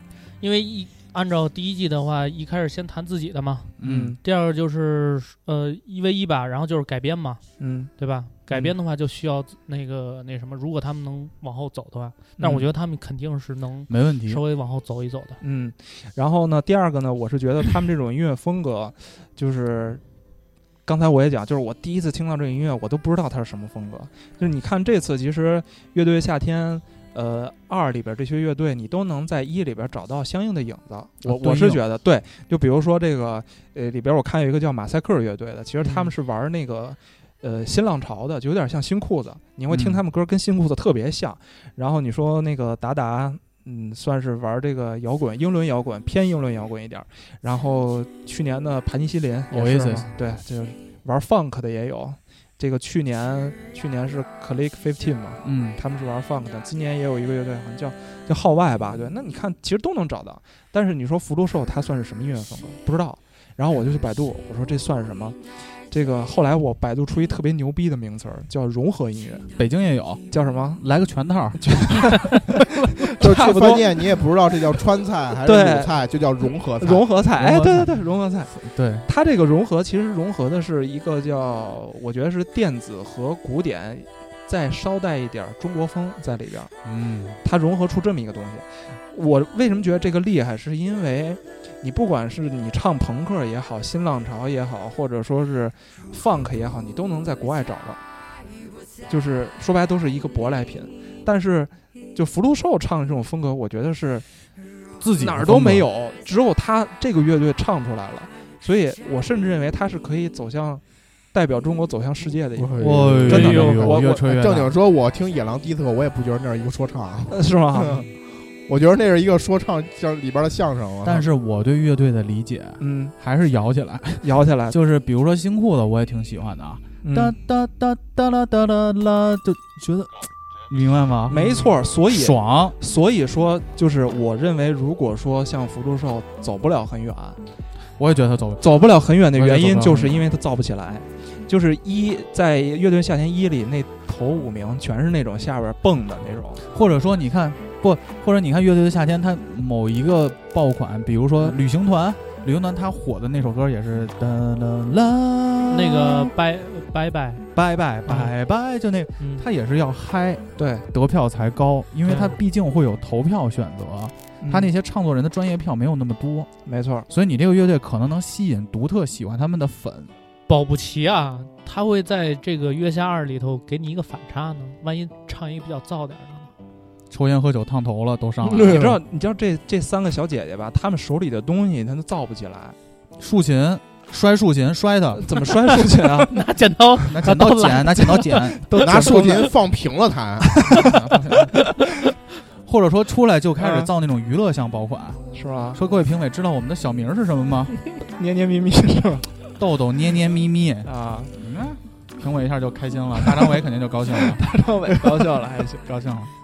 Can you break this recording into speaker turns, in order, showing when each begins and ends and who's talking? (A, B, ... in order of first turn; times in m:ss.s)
0:00.4-0:07.4 A
0:03.8-0:04.2 B
0:03.8-0:04.2 C
0:07.6-0:07.9 C
0:08.0-0:15.4 A
0:08.5-0:08.8 C
0:12.4-0:12.7 C
0:13.9-0:14.4 B
0:15.4-0:20.0 C
0:20.8-1:09.5 C
0:31.2-0:31.8 B
0:35.8-0:36.1 A
0:39.7-0:40.0 B
0:49.5-0:50.1 B
0:55.4-0:55.8 B
1:09.6-1:10.2 B
1:10.3-1:10.8 C
1:10.8-1:12.4 B
1:11.6-1:12.4 C
1:13.2-1:14.0 C
1:13.2-1:17.1 D
1:15.4-1:16.0 C
1:16.8-1:18.5 C
1:17.4-1:19.1 B
1:19.1-1:26.7 C
1:26.8-1:27.4 B
1:27.4-1:38.0 C
1:39.1-1:44.3 C
1:45.0-1:45.9 B
1:45.2-1:54.2 C
1:52.6-1:58.1 D
1:52.8-1:54.7 B
1:53.3-1:53.8 A
1:57.3-1:58.1 C
1:58.7-2:01.3 D
2:01.0-2:12.8 B
2:02.8-2:03.2 C
2:04.2-2:04.8 C
2:07.0-2:07.4 C
2:11.3-2:17.4 C
2:18.0-2:20.3 B
2:18.6-2:26.6 C
2:26.7-2:36.3 B
2:35.7-2:37.5 A
2:37.5-2:46.5 B
2:38.1-2:38.3 A
2:39.2-2:39.5 A
2:40.6-2:40.9 C
2:42.1-2:42.4 A
2:44.4-2:44.7 C
2:46.6-2:47.1 C
2:47.1-2:50.1 B
2:50.5-2:56.5 A
2:57.1-2:58.9 B
2:58.4-2:59.0 D
2:58.6-3:02.8 C
3:03.2-3:05.4 B
3:05.2-3:06.3 C
3:06.2-3:08.8 A
3:07.1-3:09.1 B
3:08.7-3:09.5 C
3:08.8-3:10.6 D
3:10.8-3:11.5 B
3:12.6-3:15.2 B
3:13.6-3:13.9 C
3:15.3-3:15.8 C
3:15.7-3:17.8 B
3:18.0-3:19.4 C
3:19.6-3:25.3 B
3:20.8-3:21.3 C
3:23.2-3:23.6 C
3:24.1-3:25.8 C
3:25.8-3:26.3 B